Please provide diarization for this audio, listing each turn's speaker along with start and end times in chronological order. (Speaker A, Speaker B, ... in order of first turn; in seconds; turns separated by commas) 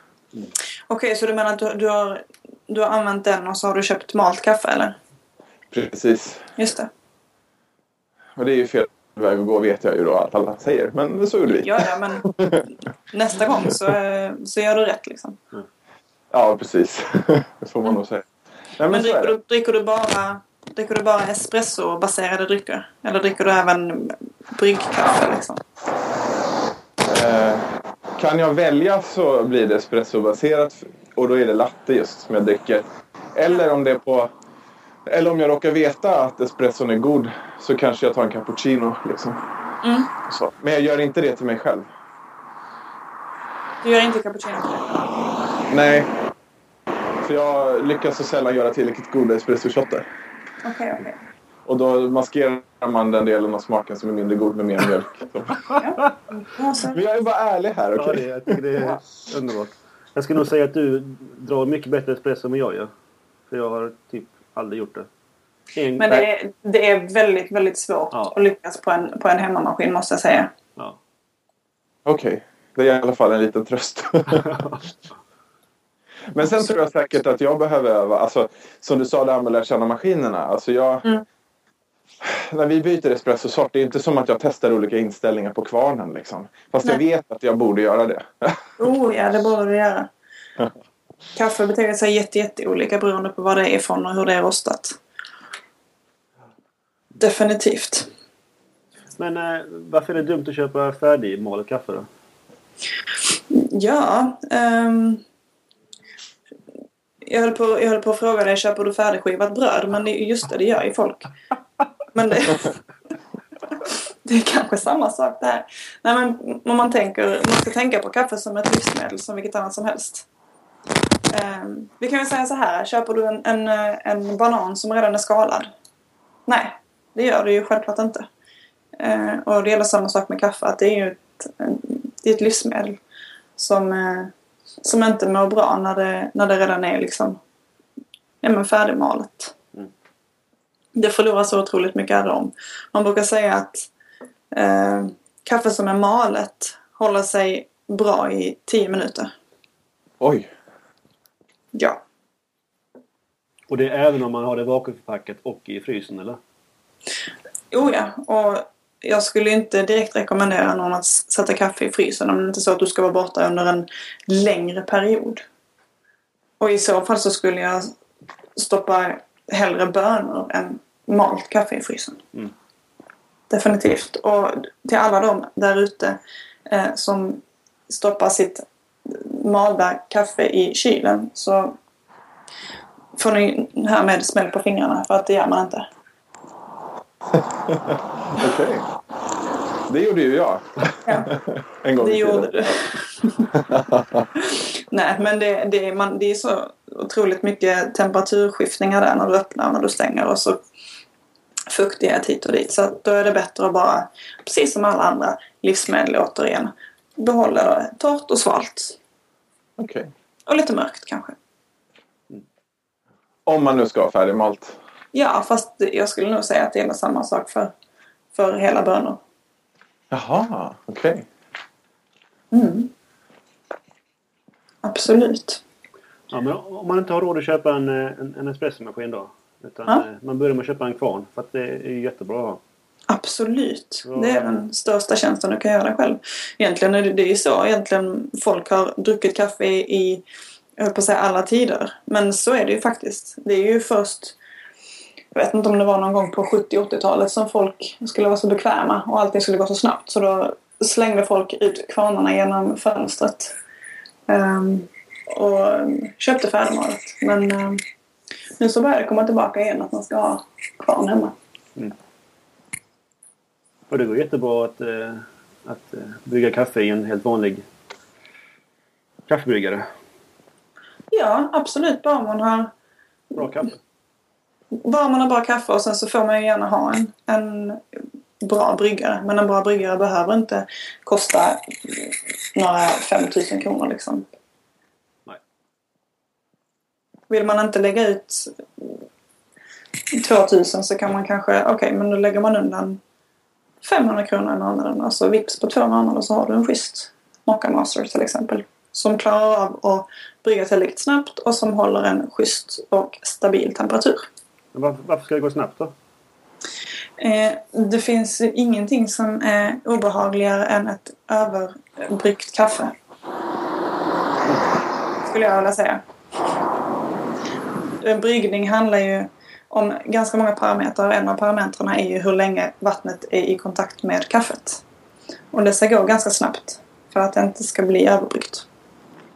Speaker A: 0.9-5.0, Speaker B: 5.7-6.5, Speaker A: 6.6-6.9, Speaker B: 8.4-12.7, Speaker A: 11.6-12.4, Speaker A: 13.1-15.4, Speaker B: 16.3-19.4, Speaker A: 18.9-25.6, Speaker B: 27.1-34.3, Speaker B: 35.1-39.4, Speaker A: 39.8-40.1, Speaker B: 40.3-41.9, Speaker A: 43.8-45.0, Speaker B: 45.7-46.1, Speaker B: 47.2-50.0, Speaker A: 50.6-51.2, Speaker B: 51.7-55.6, Speaker C: 55.7-56.1, Speaker A: 56.5-57.0, Speaker B: 56.9-58.6, Speaker C: 58.0-62.9, Speaker C: 63.5-65.1, Speaker C: 65.7-66.2, Speaker A: 66.0-70.5, Speaker B: 72.1-74.6, Speaker C: 74.5-74.8, Speaker B: 76.3-81.0, Speaker B: 82.2-88.8, Speaker A: 88.8-90.1, Speaker A: 91.3-95.0, Speaker A: 97.2-98.1, Speaker C: 99.2-102.1, Speaker A: 103.5-105.2, Speaker A: 107.2-111.3, Speaker A: 112.1-112.7, Speaker A: 113.8-120.3, Speaker A: 121.3-125.7, Speaker A: 126.5-128.3, Speaker A: 129.0-133.0, Speaker A: 133.6-137.4, Speaker A: 138.4-139.6, Speaker A: 141.0-143.9, Speaker A: 144.5-149.3, Speaker B: 150.2-150.5, Speaker A: 151.7-152.0, Speaker C: 153.7-156.4, Speaker A: 157.7-165.4, Speaker A: 166.6-167.9, Speaker A: 168.6-172.2, Speaker A: 173.5-181.8, Speaker A: 183.2-185.9, Speaker B: 187.3-188.8, Speaker B: 189.9-192.8, Speaker A: 191.1-191.3, Speaker A: 192.0-193.5, Speaker B: 193.5-194.3, Speaker A: 194.4-200.6, Speaker A: 201.7-209.0, Speaker B: 209.8-210.1, Speaker A: 210.5-211.4, Speaker B: 213.5-214.8, Speaker A: 215.1-217.7, Speaker A: 218.3-219.2, Speaker B: 220.1-221.3, Speaker A: 222.5-222.9, Speaker A: 224.8-225.6, Speaker C: 226.3-232.6, Speaker A: 233.1-240.2, Speaker C: 234.1-234.6, Speaker A: 240.8-244.4, Speaker A: 245.3-253.6, Speaker A: 254.3-257.8, Speaker A: 258.6-261.4, Speaker C: 263.9-267.6, Speaker C: 269.3-269.9, Speaker A: 271.1-272.7, Speaker C: 273.4-273.8, Speaker A: 274.7-277.8, Speaker A: 278.4-284.3, Speaker A: 287.3-289.0, Speaker A: 290.1-293.0, Speaker A: 293.8-304.3, Speaker C: 304.7-305.9, Speaker A: 307.2-312.9, Speaker A: 315.2-316.0, Speaker A: 318.0-324.8, Speaker A: 325.5-328.7